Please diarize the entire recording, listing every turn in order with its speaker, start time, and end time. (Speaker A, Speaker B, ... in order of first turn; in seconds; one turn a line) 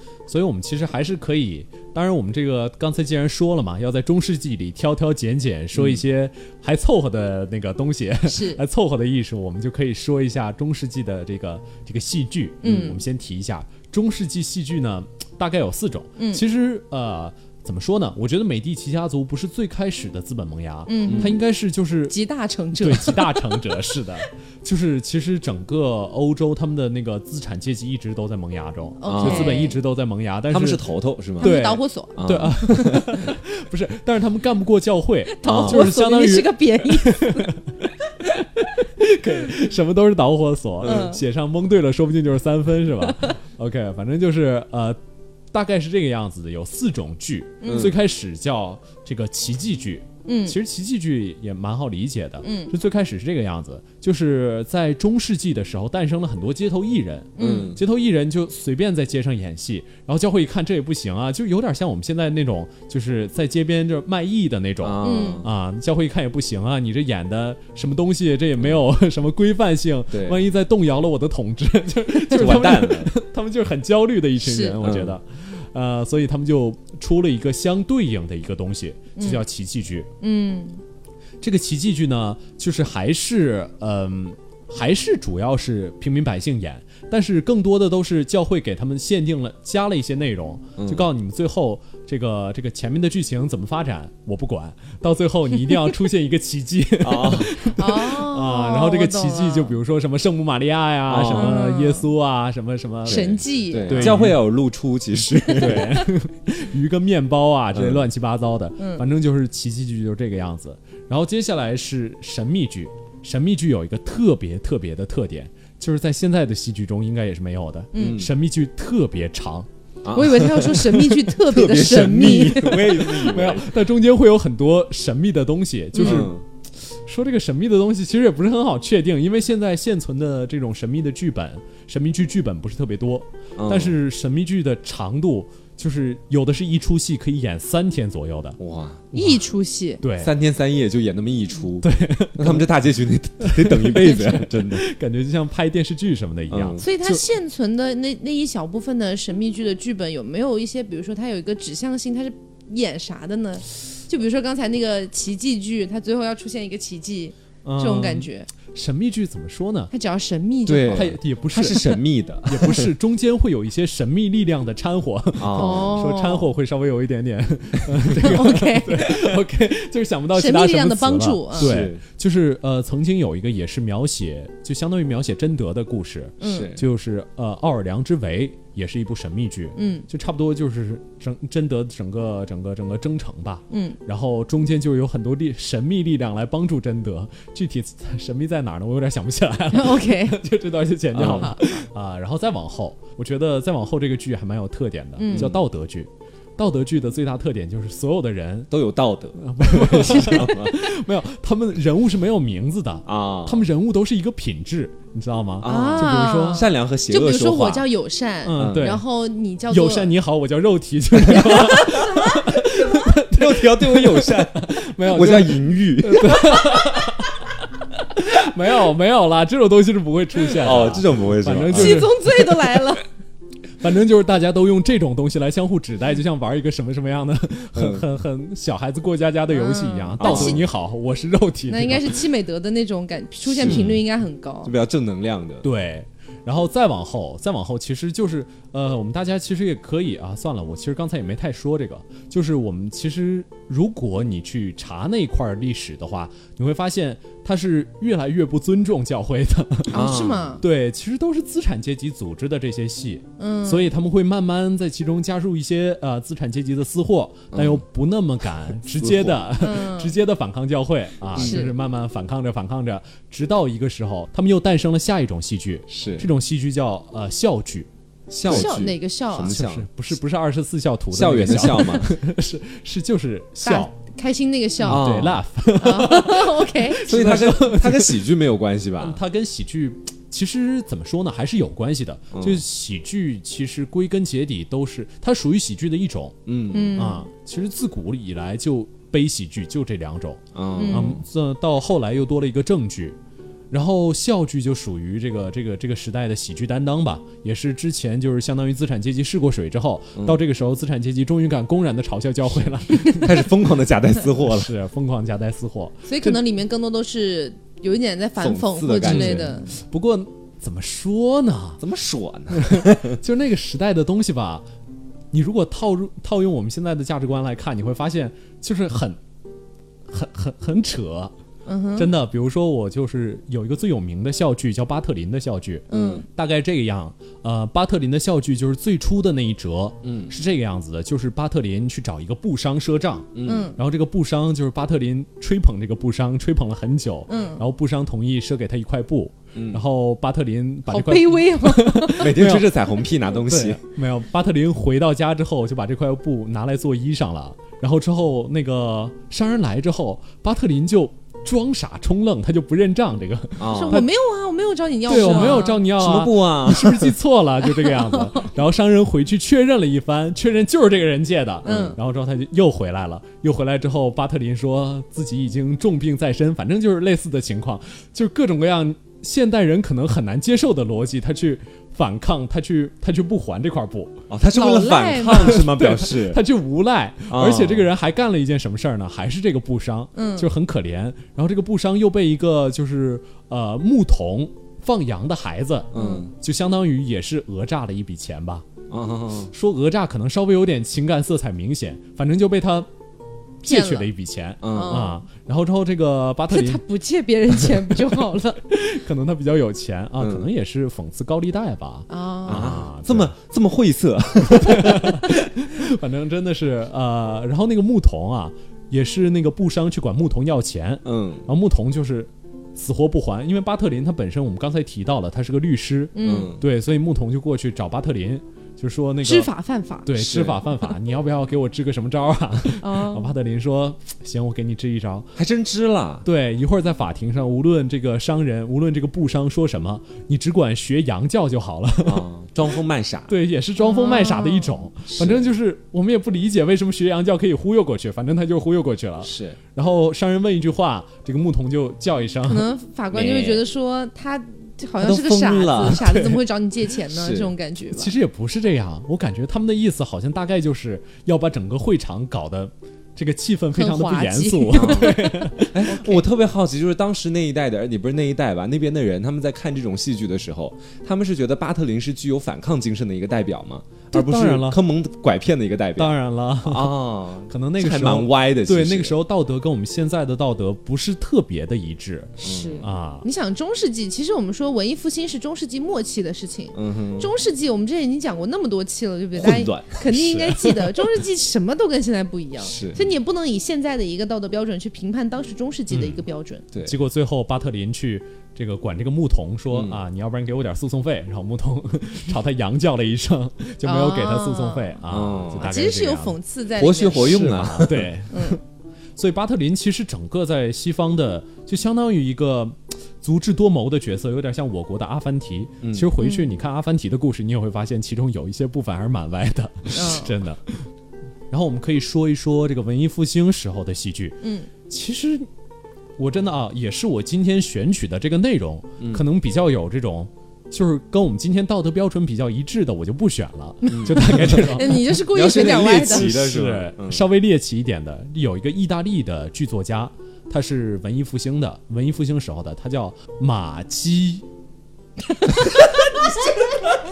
Speaker A: 0.3-22.2
Speaker B: 5.7-6.0
Speaker C: 8.2-8.6
Speaker C: 12.6-13.0
Speaker B: 12.6-13.0
Speaker C: 16.2-16.4
Speaker C: 20.9-21.4
Speaker B: 21.1-21.4
Speaker C: 22.1-23.6
Speaker A: 22.8-30.8
Speaker C: 29.0-29.8
Speaker B: 29.1-29.6
Speaker B: 30.5-31.6
Speaker A: 31.4-37.6
Speaker C: 31.4-33.0
Speaker B: 32.2-33.3
Speaker C: 35.4-37.5
Speaker B: 35.5-35.9
Speaker A: 38.2-45.0
Speaker C: 40.8-41.2
Speaker C: 43.0-43.3
Speaker A: 45.5-80.1
Speaker C: 47.6-47.9
Speaker B: 47.7-48.0
Speaker C: 50.2-50.6
Speaker C: 52.4-52.7
Speaker C: 57.4-57.8
Speaker B: 57.4-57.8
Speaker B: 64.8-65.5
Speaker C: 65.0-65.5
Speaker B: 70.1-70.4
Speaker B: 72.3-73.1
Speaker C: 74.4-74.8
Speaker B: 74.8-75.2
Speaker C: 79.2-79.4
Speaker C: 80.2-80.8
Speaker A: 81.4-104.4
Speaker B: 90.8-91.1
Speaker B: 97.0-97.5
Speaker C: 97.8-99.8
Speaker B: 101.1-101.6
Speaker C: 101.3-102.1
Speaker C: 103.1-104.2
Speaker B: 103.1-106.0
Speaker C: 105.5-106.1
Speaker A: 105.5-119.7
Speaker B: 107.7-108.0
Speaker C: 108.8-109.0
Speaker C: 117.9-118.2
Speaker B: 118.0-118.3
Speaker B: 120.0-120.9
Speaker C: 120.1-123.1
Speaker B: 121.4-123.7
Speaker A: 122.3-138.6
Speaker C: 125.9-126.3
Speaker B: 126.0-126.4
Speaker B: 133.6-133.9
Speaker B: 138.6-139.1
Speaker A: 139.1-139.4
Speaker C: 139.1-140.0
Speaker A: 140.0-140.3
Speaker B: 140.2-144.8
Speaker A: 141.8-142.7
Speaker A: 143.4-147.2
Speaker B: 146.5-146.8
Speaker C: 146.8-158.5
Speaker A: 157.6-159.9
Speaker C: 159.9-161.1
Speaker B: 160.7-162.9
Speaker A: 160.9-198.7
Speaker B: 165.4-166.0
Speaker C: 165.5-166.5
Speaker C: 168.1-169.2
Speaker C: 170.3-171.7
Speaker B: 171.6-172.0
Speaker C: 176.4-176.7
Speaker B: 176.4-176.8
Speaker C: 179.8-180.1
Speaker C: 183.7-184.0
Speaker C: 189.7-190.4
Speaker B: 191.1-191.5
Speaker C: 191.3-191.6
Speaker C: 195.2-195.5
Speaker B: 195.3-195.6
Speaker B: 198.7-200.8
Speaker A: 199.4-206.7
Speaker B: 203.1-203.6
Speaker B: 205.6-207.9
Speaker C: 205.6-210.1
Speaker A: 208.4-209.0
Speaker B: 208.6-208.9
Speaker A: 209.7-217.3
Speaker C: 211.3-212.6
Speaker B: 211.3-211.8
Speaker B: 212.9-216.8
Speaker A: 218.0-222.8
Speaker B: 220.6-222.1
Speaker C: 221.7-223.0
Speaker A: 223.8-232.2
Speaker B: 227.8-228.1
Speaker C: 229.5-230.6
Speaker B: 230.2-230.7
Speaker C: 231.7-234.7
Speaker B: 233.5-234.0
Speaker A: 233.6-233.9
Speaker B: 234.6-235.7
Speaker A: 235.6-250.1
Speaker C: 249.9-250.6
Speaker B: 249.9-250.6
Speaker A: 250.6-267.9
Speaker C: 253.4-253.9
Speaker B: 257.5-257.8
Speaker B: 259.0-259.4
Speaker C: 259.6-260.1
Speaker B: 261.4-261.7
Speaker C: 261.4-261.7
Speaker B: 265.9-266.3
Speaker B: 268.3-269.9
Speaker C: 268.5-269.5
Speaker A: 268.5-268.8
Speaker A: 269.4-273.9
Speaker B: 271.1-272.1
Speaker C: 273.6-275.1
Speaker A: 274.8-278.2
Speaker B: 274.9-275.4
Speaker C: 275.8-277.0
Speaker B: 277.1-279.2
Speaker A: 279.0-286.4
Speaker B: 282.3-282.6
Speaker B: 286.5-287.0
Speaker C: 286.7-287.3
Speaker A: 287.0-293.2
Speaker B: 290.6-291.2
Speaker C: 290.8-291.2
Speaker A: 293.7-303.5
Speaker B: 302.5-304.7
Speaker A: 304.4-306.4
Speaker C: 306.1-309.7
Speaker B: 308.4-309.6
Speaker A: 309.0-311.8
Speaker B: 311.8-313.2
Speaker A: 312.5-314.6
Speaker A: 315.3-319.2
Speaker A: 320.1-321.3
Speaker C: 321.6-322.1
Speaker A: 321.9-342.8
Speaker C: 325.9-326.2
Speaker B: 325.9-326.2
Speaker B: 330.0-330.3
Speaker B: 333.4-333.7
Speaker C: 333.4-333.8
Speaker C: 337.3-337.6
Speaker B: 339.6-339.8
Speaker C: 340.9-342.3
Speaker B: 342.2-343.8
Speaker A: 343.4-354.1
Speaker B: 353.6-354.0
Speaker C: 353.6-355.8
Speaker A: 355.1-374.2
Speaker B: 355.1-357.1
Speaker C: 357.8-358.4
Speaker B: 361.6-362.0
Speaker C: 361.6-361.9
Speaker B: 374.3-376.4
Speaker C: 374.5-375.7
Speaker A: 375.3-388.6
Speaker B: 377.3-377.9
Speaker C: 380.1-380.5
Speaker B: 385.9-386.3
Speaker C: 385.9-386.3
Speaker B: 388.9-389.5
Speaker A: 389.5-392.9
Speaker A: 393.6-396.8
Speaker C: 393.6-394.1
Speaker B: 394.6-395.1
Speaker C: 394.7-395.2
Speaker C: 396.5-398.6
Speaker A: 397.7-403.3
Speaker B: 400.2-400.5
Speaker C: 402.1-402.8
Speaker B: 402.5-405.4
Speaker A: 404.5-419.5
Speaker B: 411.1-411.5
Speaker C: 416.1-416.6
Speaker B: 416.2-416.6
Speaker C: 419.2-420.1
Speaker A: 420.1-425.3
Speaker B: 420.2-420.6
Speaker C: 422.8-423.3
Speaker B: 425.4-426.3
Speaker A: 426.2-432.3
Speaker B: 432.0-433.3
Speaker A: 433.3-442.7
Speaker C: 433.8-434.9
Speaker B: 435.1-435.5
Speaker B: 439.2-439.6
Speaker C: 442.4-448.1
Speaker B: 443.1-443.6
Speaker B: 445.0-446.1
Speaker A: 445.9-446.3
Speaker B: 447.1-447.5
Speaker A: 447.9-455.9
Speaker C: 453.7-456.2
Speaker B: 454.7-455.1
Speaker B: 455.7-469.1
Speaker A: 464.1-464.8
Speaker A: 466.0-473.2
Speaker B: 472.4-472.9
Speaker C: 472.4-486.6
Speaker B: 476.7-477.3
Speaker B: 479.4-480.0
Speaker B: 482.6-483.1
Speaker A: 485.9-486.2
Speaker A: 486.8-496.4
Speaker B: 489.7-490.0
Speaker C: 493.8-495.0
Speaker B: 495.1-495.7
Speaker C: 495.6-497.6
Speaker B: 496.8-498.1
Speaker A: 497.1-498.6
Speaker C: 498.3-498.6
Speaker A: 499.2-510.9
Speaker B: 505.8-506.1
Speaker C: 506.2-506.5
Speaker C: 509.9-510.3
Speaker A: 511.5-515.5
Speaker C: 514.4-514.7
Speaker A: 516.2-534.4
Speaker C: 523.9-526.3
Speaker B: 523.9-527.2